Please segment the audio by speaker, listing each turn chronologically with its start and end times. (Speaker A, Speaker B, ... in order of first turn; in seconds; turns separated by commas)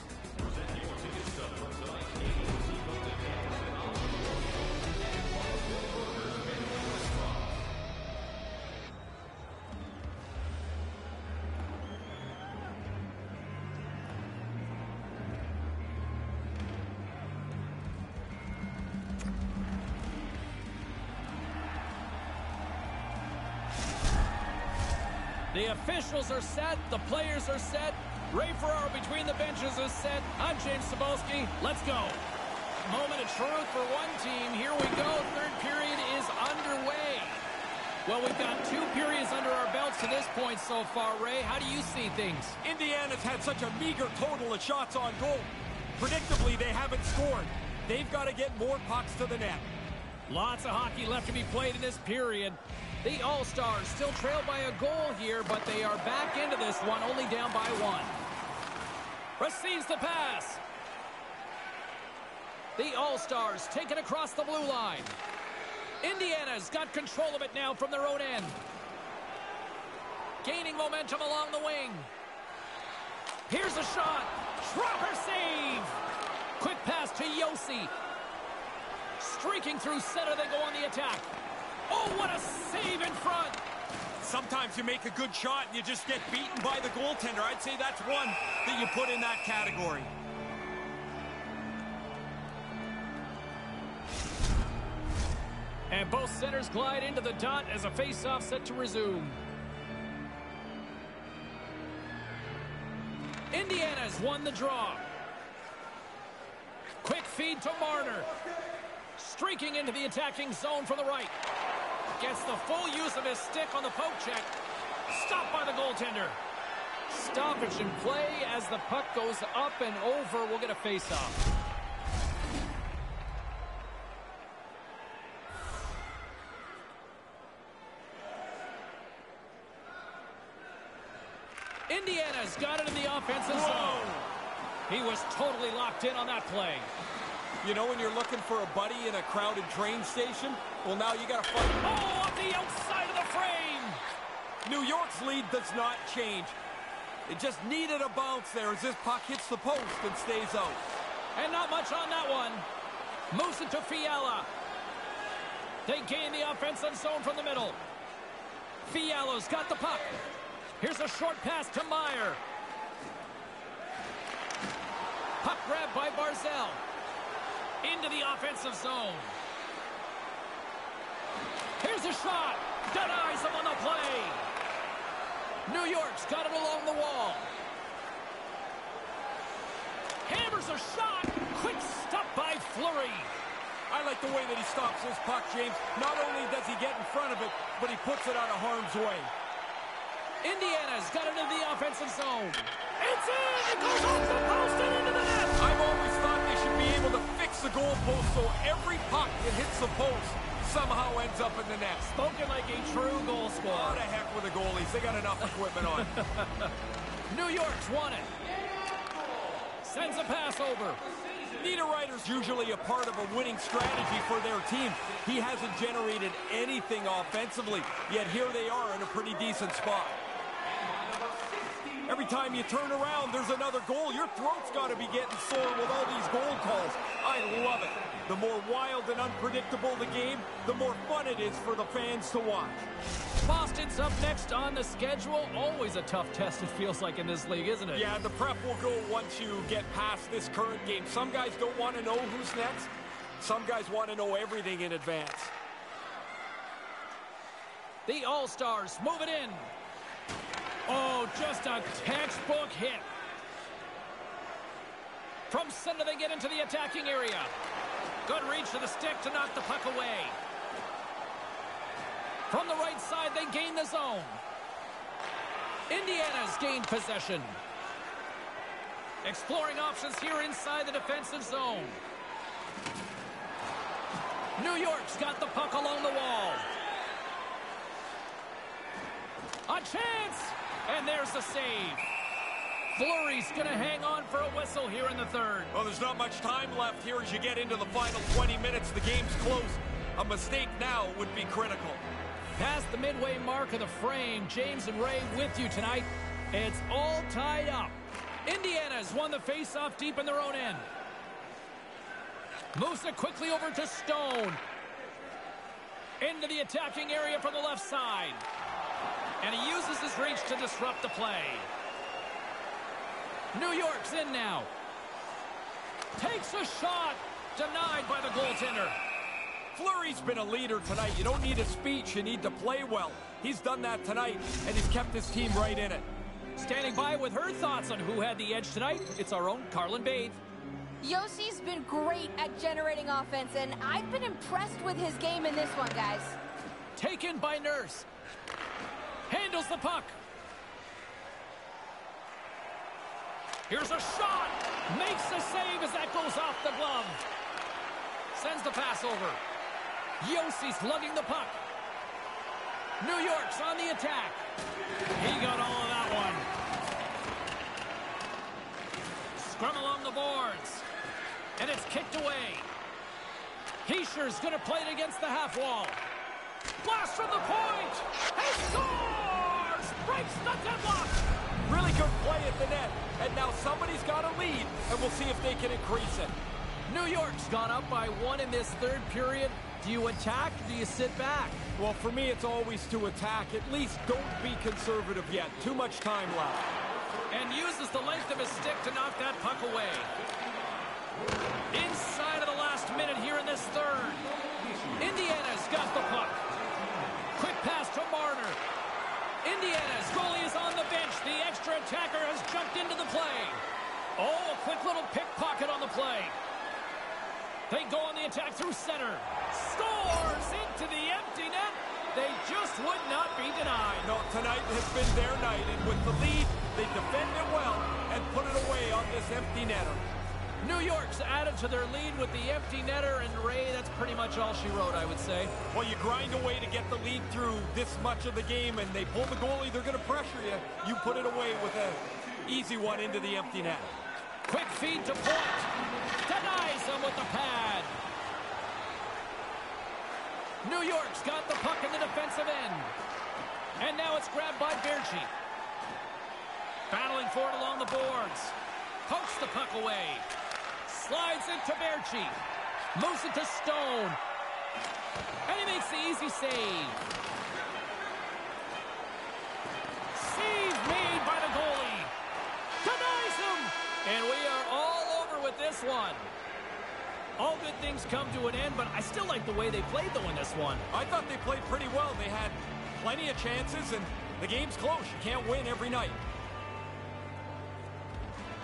Speaker A: 0.6-4.1, Speaker A: 5.5-7.1, Speaker B: 25.5-32.2, Speaker B: 32.8-37.4, Speaker B: 38.0-42.6, Speaker A: 42.6-49.7, Speaker B: 50.3-58.2, Speaker B: 59.4-60.6, Speaker B: 62.8-65.2, Speaker B: 66.0-68.6, Speaker B: 70.4-72.1, Speaker B: 73.5-76.0, Speaker B: 76.6-77.9, Speaker B: 79.2-81.3, Speaker B: 81.9-83.6, Speaker A: 84.2-90.1, Speaker B: 95.9-99.4, Speaker B: 103.5-105.0, Speaker B: 107.0-108.3, Speaker B: 109.2-111.3, Speaker B: 112.2-114.5, Speaker B: 115.1-116.4, Speaker B: 117.1-121.4, Speaker B: 131.9-134.1, Speaker A: 133.5-134.3, Speaker B: 134.9-136.9, Speaker A: 137.6-141.8, Speaker B: 141.8-144.0, Speaker A: 144.6-146.6, Speaker A: 147.3-150.8, Speaker B: 151.4-152.7, Speaker B: 153.3-154.5, Speaker B: 155.9-157.8, Speaker B: 158.8-160.2, Speaker B: 160.8-162.4, Speaker B: 165.4-166.8, Speaker B: 167.8-169.3, Speaker B: 171.8-174.5, Speaker B: 175.7-177.5, Speaker B: 180.2-183.3, Speaker A: 183.9-189.3, Speaker B: 190.4-195.6, Speaker A: 195.6-202.1, Speaker B: 202.2-204.0, Speaker A: 203.7-206.1, Speaker B: 205.8-206.7, Speaker B: 207.3-208.3, Speaker B: 209.8-211.0, Speaker A: 211.6-220.2, Speaker A: 222.1-232.9, Speaker B: 233.4-238.1, Speaker A: 237.9-245.5, Speaker B: 248.1-249.7, Speaker B: 250.9-253.1, Speaker B: 255.5-257.5, Speaker B: 258.2-260.4, Speaker B: 262.5-264.4, Speaker B: 265.9-267.6, Speaker B: 269.2-272.0, Speaker B: 274.6-276.7, Speaker B: 279.7-282.1, Speaker B: 282.9-285.7, Speaker A: 285.7-292.0, Speaker B: 292.6-297.9, Speaker B: 298.5-300.9, Speaker B: 302.7-304.6, Speaker B: 306.2-308.4, Speaker B: 309.4-311.7, Speaker B: 313.5-314.7, Speaker B: 316.2-319.0, Speaker A: 319.8-326.1, Speaker B: 326.6-330.4, Speaker C: 331.0-336.4, Speaker B: 337.0-338.1, Speaker B: 339.3-340.2, Speaker B: 343.7-347.2, Speaker B: 348.3-349.4, Speaker B: 350.2-351.6, Speaker B: 353.0-354.4, Speaker B: 355.2-356.5, Speaker B: 359.4-360.9, Speaker B: 361.6-362.7, Speaker B: 363.9-366.0, Speaker B: 366.8-371.2, Speaker A: 371.7-376.4, Speaker B: 376.9-381.6, Speaker A: 381.8-386.8, Speaker B: 387.3-390.1, Speaker B: 391.7-394.3, Speaker B: 395.0-396.4, Speaker B: 397.4-398.6, Speaker B: 399.4-403.6, Speaker B: 404.2-406.4, Speaker B: 407.7-414.1, Speaker A: 414.0-420.0, Speaker B: 420.6-425.5, Speaker A: 425.7-434.0, Speaker B: 434.5-435.7, Speaker B: 436.2-438.0, Speaker B: 440.6-442.9, Speaker B: 443.8-445.3, Speaker B: 446.9-450.3, Speaker B: 450.9-452.4, Speaker B: 452.9-454.2, Speaker B: 455.5-457.0, Speaker B: 460.1-462.1, Speaker B: 462.8-466.3, Speaker B: 467.4-470.9, Speaker A: 470.9-476.2